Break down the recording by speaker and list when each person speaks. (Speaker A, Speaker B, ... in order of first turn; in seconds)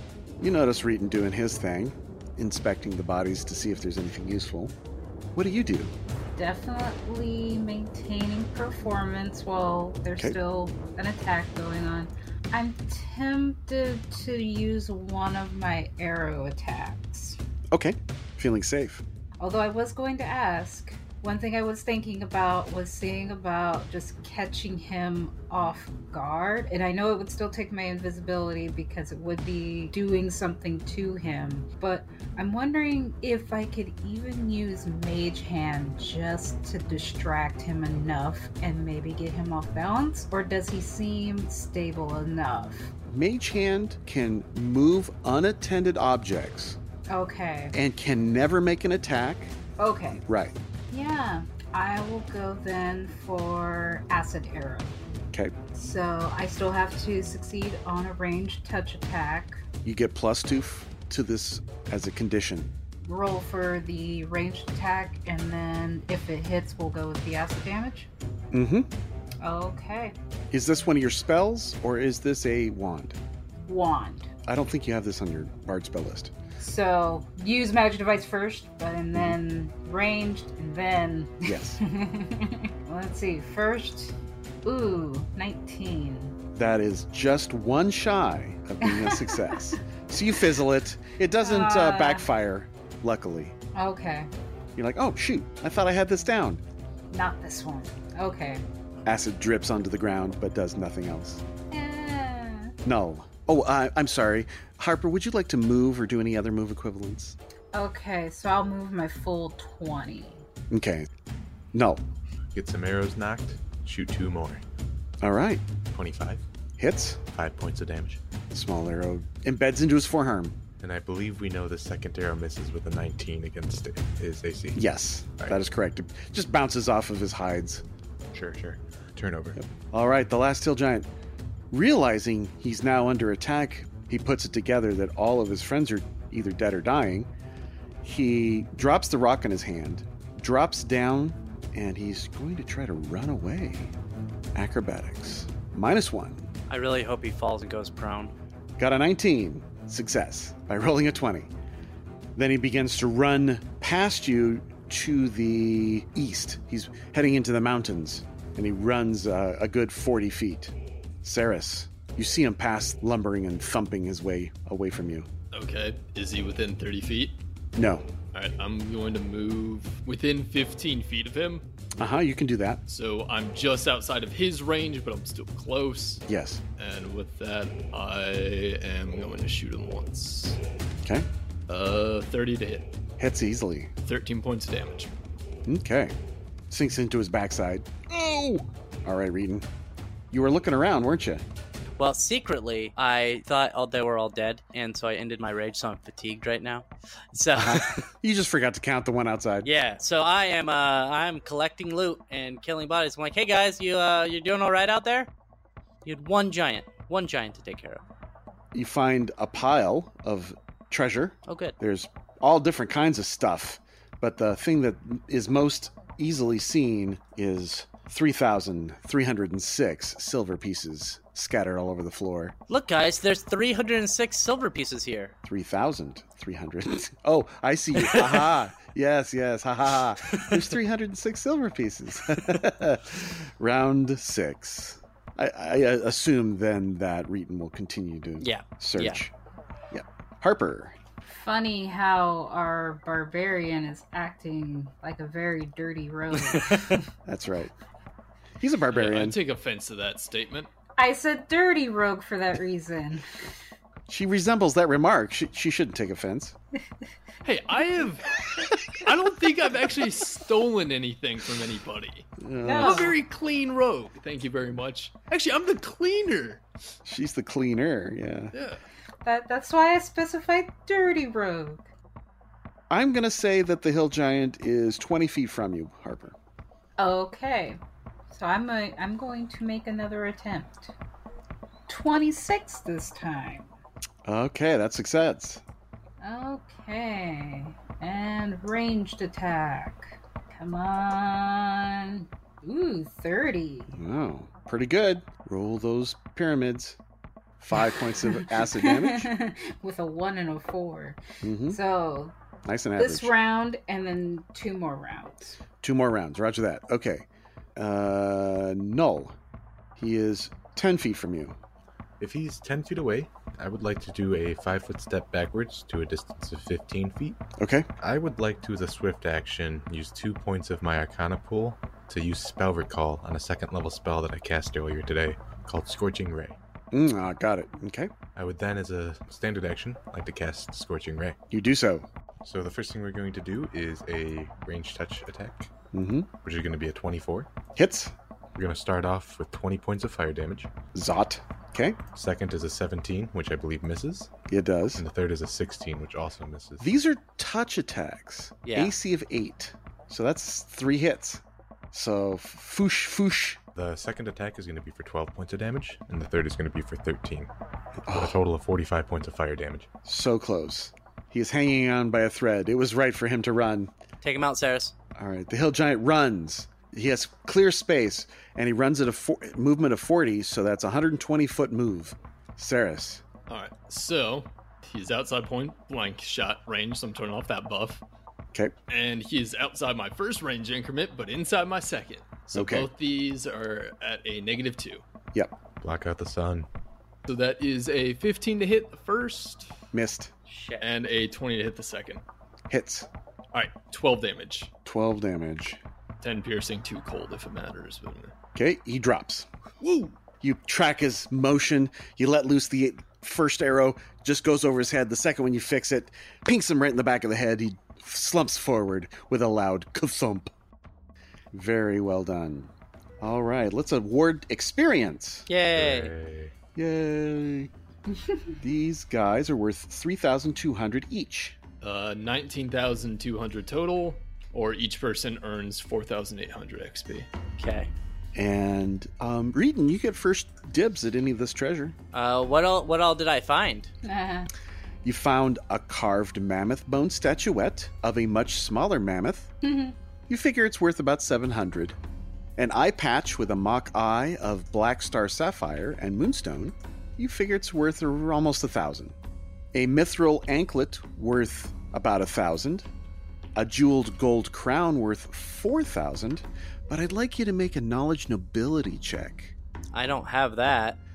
Speaker A: 0.4-4.7, 5.3-5.9, 17.7-19.0, 43.0-46.8, 47.7-49.5, 50.2-50.5, 59.8-62.7, 68.5-68.9, 70.5-73.2, 74.5-76.3, 81.4-81.8, 86.5-93.5, 94.8-96.6, 99.0-101.4, 102.8-107.4, 110.7-111.1, 111.7-112.0, 115.2-115.6, 116.8-117.2, 118.5-120.6, 124.7-127.8, 129.6-131.1, 131.7-137.3, 138.0-143.9, 144.5-146.5, 148.8-151.5, 152.3-165.3, 167.8-168.0, 172.0-172.8, 176.3-176.6, 183.2-183.9, 185.7-186.1, 186.7-189.7, 190.3-191.4, 197.5-199.7, 208.7-222.5, 225.4-239.3, 239.9-240.9, 247.2-247.7, 248.6-249.4, 254.1-256.5, 262.4-263.1, 267.1-268.5, 272.9-276.4, 284.2-285.6, 293.9-297.0, 297.6-299.3, 301.4-301.8, 302.6-303.3, 305.8-309.3, 309.9-311.6, 317.6-317.9, 326.9-328.1, 331.5-332.1, 335.9-336.3, 337.7-338.1, 340.9-342.0, 344.5-345.0, 346.8-353.6, 358.1-358.4, 360.0-363.9, 365.1-373.2, 382.5-382.9, 389.9-390.3, 392.7-393.1, 394.8-395.8, 398.5-399.5, 400.4-410.5, 411.5-415.5, 416.7-417.7, 418.6-421.6, 428.3-431.9, 435.0-439.5, 440.3-442.0, 442.6-449.1, 449.7-452.9, 453.6-459.5
Speaker B: 6.3-17.4, 19.4-42.9, 47.1-47.7, 49.8-50.2, 50.9-55.0, 55.7-59.6, 63.0-68.1, 69.4-70.2, 73.7-74.3, 76.6-86.3, 88.8-89.6, 91.4-92.2, 93.7-94.3, 97.1-98.6, 101.7-102.7, 107.7-110.4, 241.2-247.0, 251.0-253.3, 262.6-263.1, 269.2-271.9, 277.0-280.9, 281.9-283.7, 286.2-293.9, 298.2-302.4, 303.0-305.6, 434.0-434.5, 439.6-439.9
Speaker C: 112.5-114.6, 115.9-116.4, 117.3-118.2, 120.8-124.8, 128.3-129.6, 312.2-317.4, 318.0-326.6, 328.3-331.4, 332.4-335.7, 336.4-337.5, 338.5-340.7, 342.1-344.3, 344.9-346.9, 353.7-357.5, 358.1-359.9, 385.8-386.7, 415.7-416.5
Speaker D: 146.7-148.3, 192.0-198.0, 199.6-205.3, 206.0-208.0, 211.5-211.8, 222.7-225.3, 238.4-239.2, 246.4-247.0, 348.6-348.9, 364.2-364.9, 390.5-390.9, 415.5-416.1, 427.6-427.9, 432.1-433.9, 459.9-461.0
Speaker E: 165.5-167.4, 168.3-171.7, 172.9-176.2, 176.8-180.6, 181.7-182.9, 184.0-185.1, 248.9-250.7, 257.4-266.6, 268.5-268.8, 373.5-378.0, 378.9-385.0, 387.2-389.7, 390.8-392.2, 393.5-394.7, 396.2-398.3, 399.8-400.1, 421.8-427.3